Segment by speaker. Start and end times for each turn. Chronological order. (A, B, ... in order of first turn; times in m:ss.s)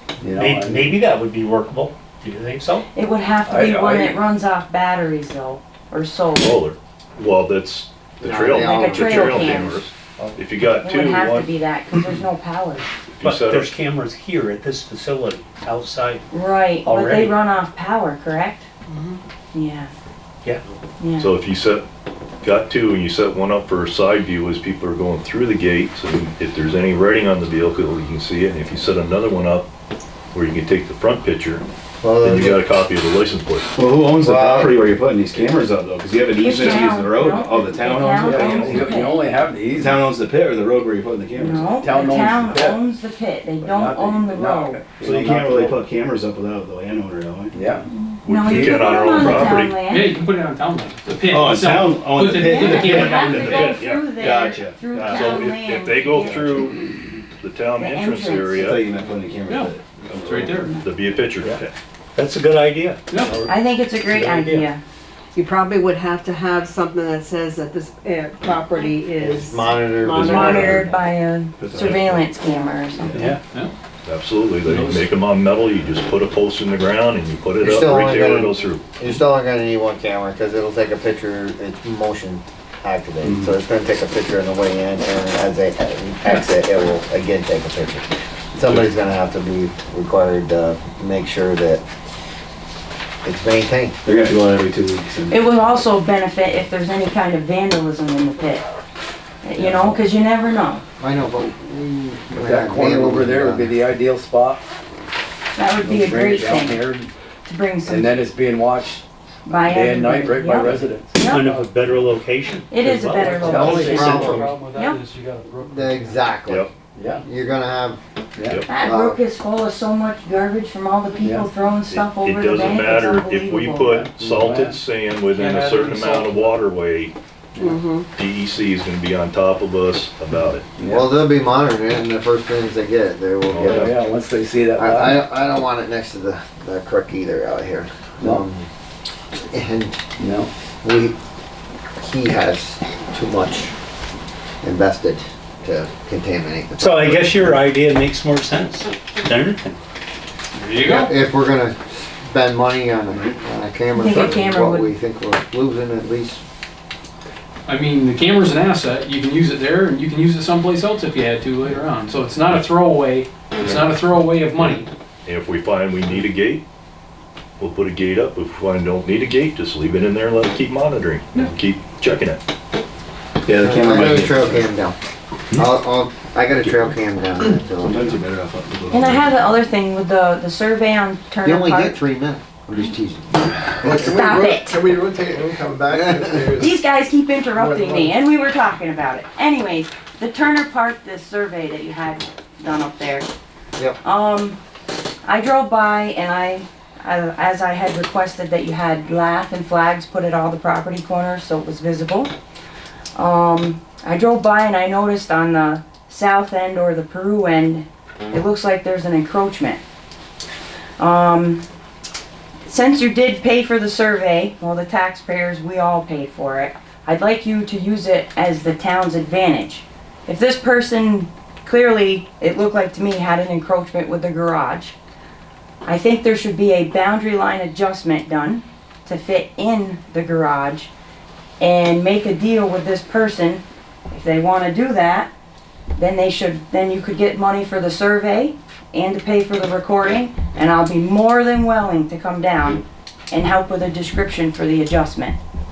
0:00.2-0:00.9 A
0:00.3-0:02.9 B
0:02.9-0:06.6 C
0:03.5-0:04.2 A
0:06.4-0:11.5 D
0:08.2-0:09.6 E
0:08.5-0:09.8 C
0:10.8-0:12.8 C
0:13.1-0:13.7 D
0:13.2-0:16.2 B
0:16.3-0:18.7 C
0:16.8-0:17.4 B
0:18.9-0:19.2 F
0:19.5-0:19.9 C
0:21.0-0:21.3 C
0:21.2-0:21.8 D
0:22.4-0:29.7 D
0:30.3-0:31.6 D
0:32.0-0:32.6 E
0:32.2-0:33.7 D
0:33.7-0:38.8 G
0:34.2-0:34.8 E
0:36.4-0:39.2 C
0:38.3-0:40.0 A
0:38.4-0:38.9 D
0:39.7-0:41.7 G
0:41.4-0:44.9 C
0:41.8-0:42.8 A
0:43.6-0:45.8 A
0:45.0-0:47.7 G
0:47.5-0:47.9 A
0:47.9-0:50.2 C
0:48.2-0:49.8 D
0:49.9-0:53.3 H
0:51.3-0:55.6 G
0:52.3-0:56.4 C
0:53.4-0:53.8 D
0:55.1-0:56.8 D
0:56.2-0:56.7 G
0:57.4-0:58.8 D
0:57.8-0:58.7 C
0:58.6-1:00.7 G
0:59.5-1:00.8 H
1:00.6-1:00.8 C
1:00.8-1:01.7 D
1:02.2-1:04.7 B
1:03.1-1:03.4 H
1:03.4-1:04.8 C
1:05.4-1:11.0 F
1:09.2-1:10.9 E
1:10.1-1:13.3 C
1:10.3-1:10.6 D
1:11.6-1:12.3 G
1:12.4-1:13.0 F
1:13.1-1:13.4 G
1:13.2-1:13.7 H
1:14.1-1:18.9 D
1:14.6-1:15.1 H
1:17.6-1:31.8 E
1:33.2-1:34.0 E
1:34.0-1:35.5 G
1:35.3-1:38.6 C
1:39.4-1:40.8 C
1:39.6-1:40.0 A
1:41.0-1:43.8 E
1:42.3-1:44.6 A
1:45.6-1:46.8 C
1:45.8-1:47.1 A
1:47.4-1:48.2 C
1:47.8-1:51.2 A
1:49.5-1:51.5 C
1:51.2-1:54.5 B
1:51.4-1:52.0 H
1:52.7-1:55.0 C
1:53.2-1:56.2 H
1:53.4-1:54.4 A
1:53.4-1:54.6 E
1:55.6-1:56.7 E
1:57.0-1:57.2 A
1:57.2-1:58.0 E
1:58.4-1:58.6 A
1:58.7-2:04.0 C
1:58.8-1:59.2 E
2:01.2-2:01.5 A
2:01.9-2:07.1 D
2:03.9-2:04.8 A
2:05.3-2:06.6 H
2:07.6-2:07.8 A
2:07.6-2:08.1 F
2:08.2-2:10.7 D
2:10.8-2:11.1 A
2:10.9-2:14.0 E
2:13.5-2:13.9 D
2:13.6-2:15.2 A
2:14.7-2:18.7 E
2:19.3-2:20.0 E
2:20.2-2:20.5 A
2:20.8-2:21.2 E
2:22.0-2:23.7 E
2:24.6-2:27.6 E
2:26.8-2:29.8 B
2:30.6-2:31.1 H
2:30.8-2:36.4 E
2:33.9-2:34.9 C
2:37.7-2:44.9 H
2:44.6-2:46.6 D
2:47.6-2:52.4 D
2:53.4-2:54.7 G
2:53.6-2:55.0 E
2:55.6-2:58.1 E
2:57.8-2:59.5 G
2:58.9-3:02.0 C
3:01.4-3:04.2 E
3:03.8-3:06.8 I
3:04.0-3:04.8 C
3:06.0-3:06.4 E
3:06.5-3:13.3 C
3:07.6-3:08.2 I
3:14.0-3:14.6 C
3:15.2-3:22.3 C
3:23.2-3:29.8 C
3:31.0-3:31.6 C
3:32.6-3:45.0 C
3:45.9-3:50.9 C
3:51.6-3:55.3 C
3:56.0-4:05.4 C